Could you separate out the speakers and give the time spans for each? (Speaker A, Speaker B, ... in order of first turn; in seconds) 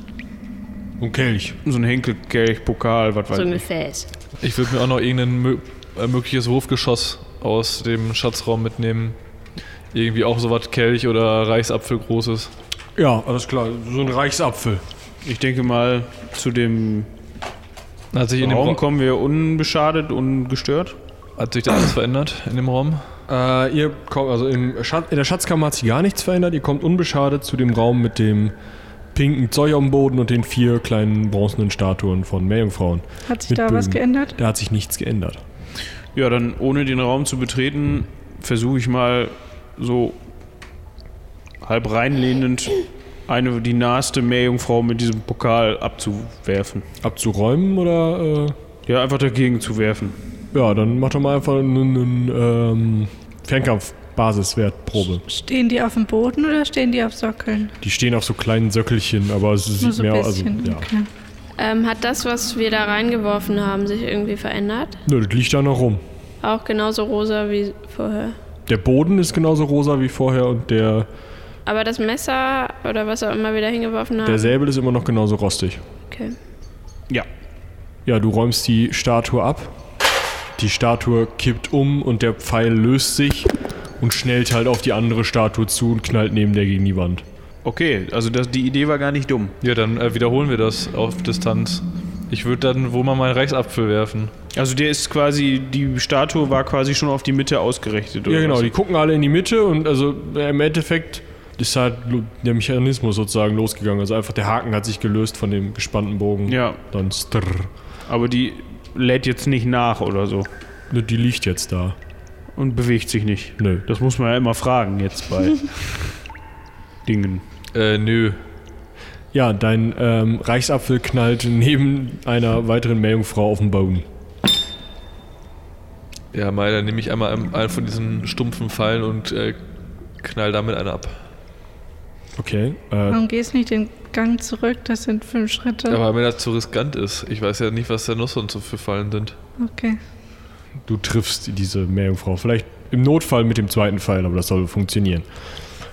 Speaker A: 1.0-1.6, 12.9-14.8, 23.3-28.5, 29.1-35.4, 47.0-48.6, 50.5-55.2, 57.8-60.9, 65.0-66.0, 68.7-71.1, 74.2-75.8, 78.0-79.8, 80.6-87.2, 98.2-107.7, 110.9-112.0, 113.6-113.8, 119.3-124.1, 132.3-133.2, 140.8-145.3
Speaker B: 1.6-3.6, 15.2-17.1, 18.4-21.0, 36.1-40.2, 41.6-46.9, 48.9-50.1, 87.6-89.5, 94.5-98.7, 106.5-106.8, 108.1-110.5, 112.5-116.1, 117.0-117.4
Speaker C: 3.3-4.1, 61.6-65.0, 66.4-68.3, 71.7-74.5, 76.1-76.3
Speaker D: 4.4-9.2, 9.9-12.5, 18.1-18.8, 21.4-23.0, 89.6-94.3, 117.7-118.4, 126.3-129.6, 130.2-131.2, 135.9-139.4
Speaker E: 33.3-34.3, 55.3-57.7, 59.8-61.1, 133.1-136.0, 139.6-140.0